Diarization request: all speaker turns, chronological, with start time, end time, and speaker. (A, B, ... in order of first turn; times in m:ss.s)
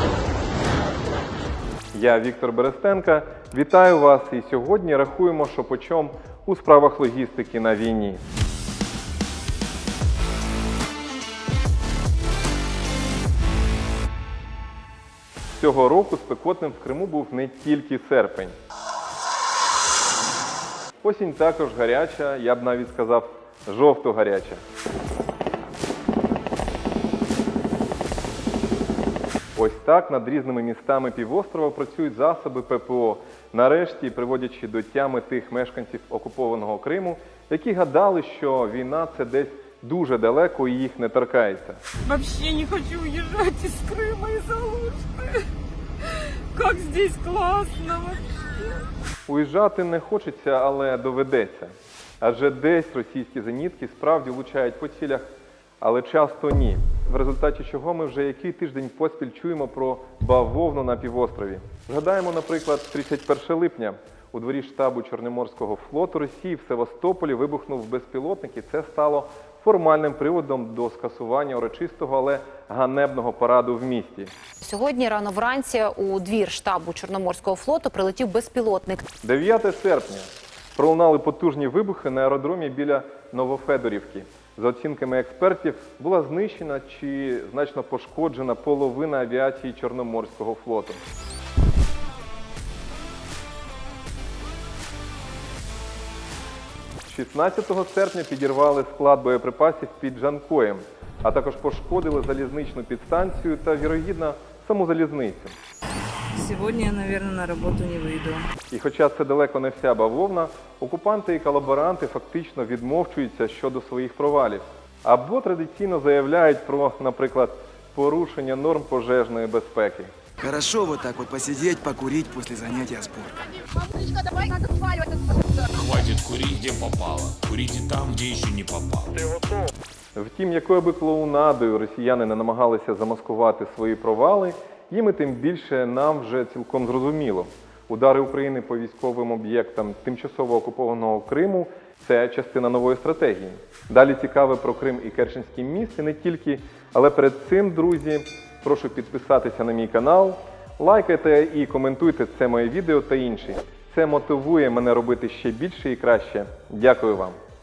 0:01.9-0:08.2 A
0:15.5-0:18.5 A
0:21.0-0:24.6 A
0:29.5-0:41.8 A
0:42.0-0:45.5 B
0:46.0-0:48.9 B
0:49.2-0:55.3 A
0:55.8-1:14.3 A
1:14.6-1:19.0 C
1:19.2-1:31.0 A
1:37.1-1:45.6 A
1:46.3-1:48.5 B
1:48.7-2:00.1 A
2:00.4-2:03.6 D
2:05.7-2:09.3 E
2:10.1-2:37.4 A